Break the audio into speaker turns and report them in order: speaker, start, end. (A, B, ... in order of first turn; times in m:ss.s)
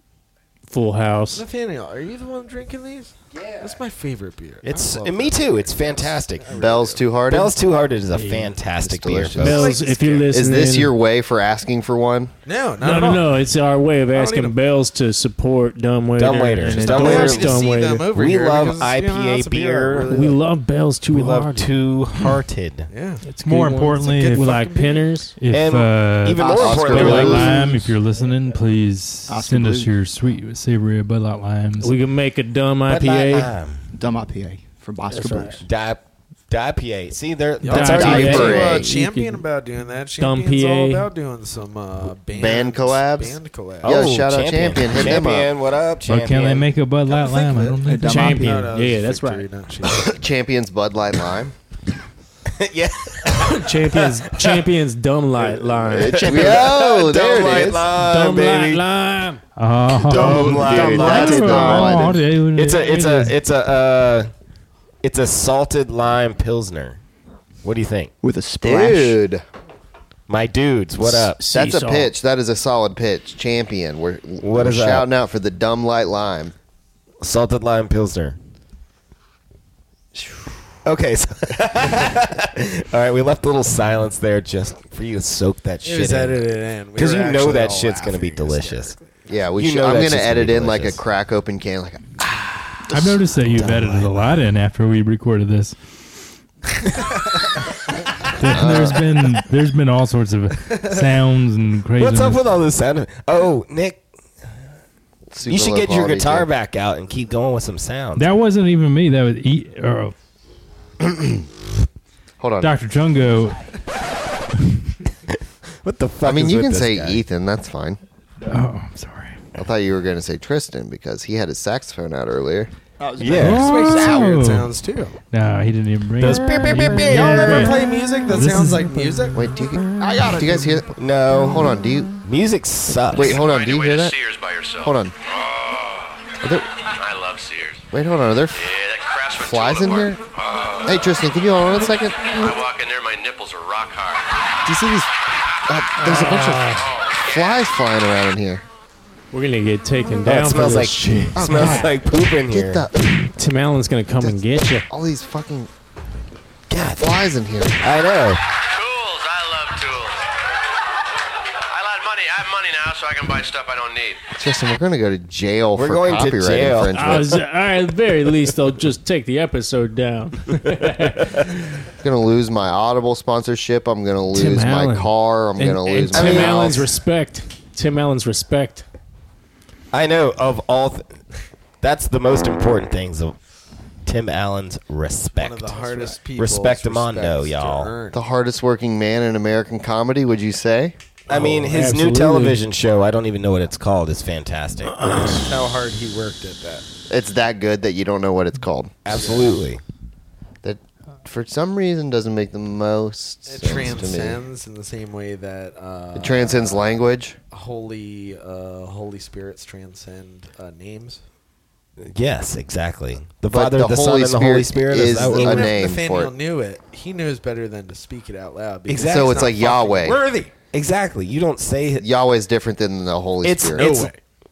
0:00.7-0:01.4 A
0:01.3-0:07.0 B
0:04.6-0:06.5 C
0:06.6-0:07.5 D
0:07.3-0:09.7 C
0:08.1-0:08.6 A
0:08.8-0:09.7 D
0:09.3-0:10.9 A
0:09.4-0:10.3 B
0:10.3-0:12.3 D
0:12.4-0:13.3 B
0:12.8-0:18.1 A
0:14.1-0:14.6 B
0:16.2-0:20.3 C
0:16.8-0:20.4 B
0:19.9-0:21.8 A
0:21.1-0:22.9 C
0:22.9-0:23.2 B
0:23.2-0:25.3 A
0:23.4-0:24.6 E
0:24.0-0:25.1 B
0:25.4-0:32.0 E
0:25.5-0:27.6 C
0:26.4-0:27.9 F
0:26.6-0:27.5 D
0:29.3-0:29.9 F
0:31.8-0:33.5 A
0:32.9-0:33.9 C
0:33.9-0:35.6 F
0:35.1-0:35.6 A
0:35.6-0:38.6 C
0:37.6-0:39.4 A
0:37.7-0:44.0 B
0:37.8-0:38.3 F
0:38.0-0:38.9 D
0:40.2-0:41.1 A
0:42.3-0:45.5 D
0:43.8-0:46.7 C
0:46.0-0:48.7 E
0:47.1-0:50.1 B
0:47.8-0:48.5 F
0:48.0-0:49.5 A
0:50.0-0:51.5 D
0:52.5-0:54.7 C
0:53.4-0:56.5 A
0:55.4-0:58.8 C
0:55.9-0:57.9 D
0:58.0-0:59.4 A
0:59.6-1:03.4 E
1:00.0-1:01.7 C
1:00.1-1:02.1 A
1:00.5-1:02.2 D
1:02.5-1:04.3 C
1:05.0-1:07.0 C
1:07.6-1:08.1 C
1:08.2-1:09.2 F
1:08.6-1:09.4 D
1:10.3-1:11.4 C
1:11.2-1:12.1 A
1:11.5-1:16.5 D
1:14.4-1:15.1 C
1:17.2-1:18.4 C
1:20.1-1:20.5 D
1:20.8-1:29.0 C
1:25.8-1:29.0 B
1:29.3-1:33.0 D
1:29.6-1:31.0 C
1:32.9-1:35.8 E
1:33.5-1:34.1 D
1:38.3-1:42.4 E
1:38.5-1:39.0 D
1:42.0-1:44.0 C
1:45.3-1:46.5 D
1:45.4-1:48.3 C
1:48.2-1:50.1 E
1:51.1-1:51.4 D
1:52.4-1:52.7 D
1:52.6-1:53.7 E
1:55.3-1:57.2 C
1:56.2-1:58.0 D
1:58.4-1:59.4 E
1:59.6-2:02.7 D
2:03.0-2:04.3 F
2:03.2-2:03.7 C
2:03.3-2:04.7 E
2:03.5-2:05.2 B
2:05.3-2:10.2 E
2:06.2-2:07.8 C
2:06.9-2:09.5 B
2:09.3-2:10.9 D
2:10.0-2:10.9 F
2:11.0-2:13.4 C
2:11.4-2:12.1 D
2:13.1-2:14.1 D
2:13.2-2:16.3 G
2:14.8-2:15.1 D
2:16.9-2:17.8 G
2:17.9-2:18.6 D
2:18.5-2:21.1 G
2:19.4-2:20.2 D
2:20.9-2:22.5 D
2:22.2-2:24.3 G
2:24.6-2:25.1 D
2:25.7-2:26.7 D
2:26.0-2:26.9 A
2:26.7-2:27.2 G
2:27.2-2:28.6 D
2:29.3-2:31.9 A
2:30.2-2:32.9 C
2:31.4-2:31.9 D
2:32.5-2:32.9 D
2:33.2-2:34.9 A
2:34.2-2:35.7 D
2:36.7-2:37.2 C
2:37.0-2:37.8 D
2:37.8-2:38.4 C
2:38.7-2:40.2 G
2:41.7-2:44.2 G
2:44.3-2:47.2 D
2:45.7-2:47.3 C
2:46.9-2:51.6 A
2:52.0-2:56.8 D
2:54.3-2:58.8 A
2:56.1-2:56.8 C
2:59.9-3:01.2 C
3:01.8-3:03.4 C
3:04.0-3:07.9 C
3:05.4-3:08.2 B
3:08.1-3:10.9 D
3:11.3-3:15.0 C
3:11.3-3:12.6 A
3:14.8-3:15.5 A
3:15.3-3:16.8 B
3:17.1-3:18.9 D
3:19.0-3:19.8 C
3:19.1-3:19.5 B
3:20.6-3:24.4 D
3:23.4-3:26.8 B
3:26.2-3:27.3 D
3:27.5-3:31.2 B
3:32.0-3:35.7 C
3:33.5-3:36.3 D
3:35.1-3:40.5 B
3:38.9-3:39.5 C
3:39.0-3:40.2 D
3:40.7-3:42.1 C
3:42.0-3:43.8 D
3:43.4-3:44.1 C
3:43.8-3:44.2 B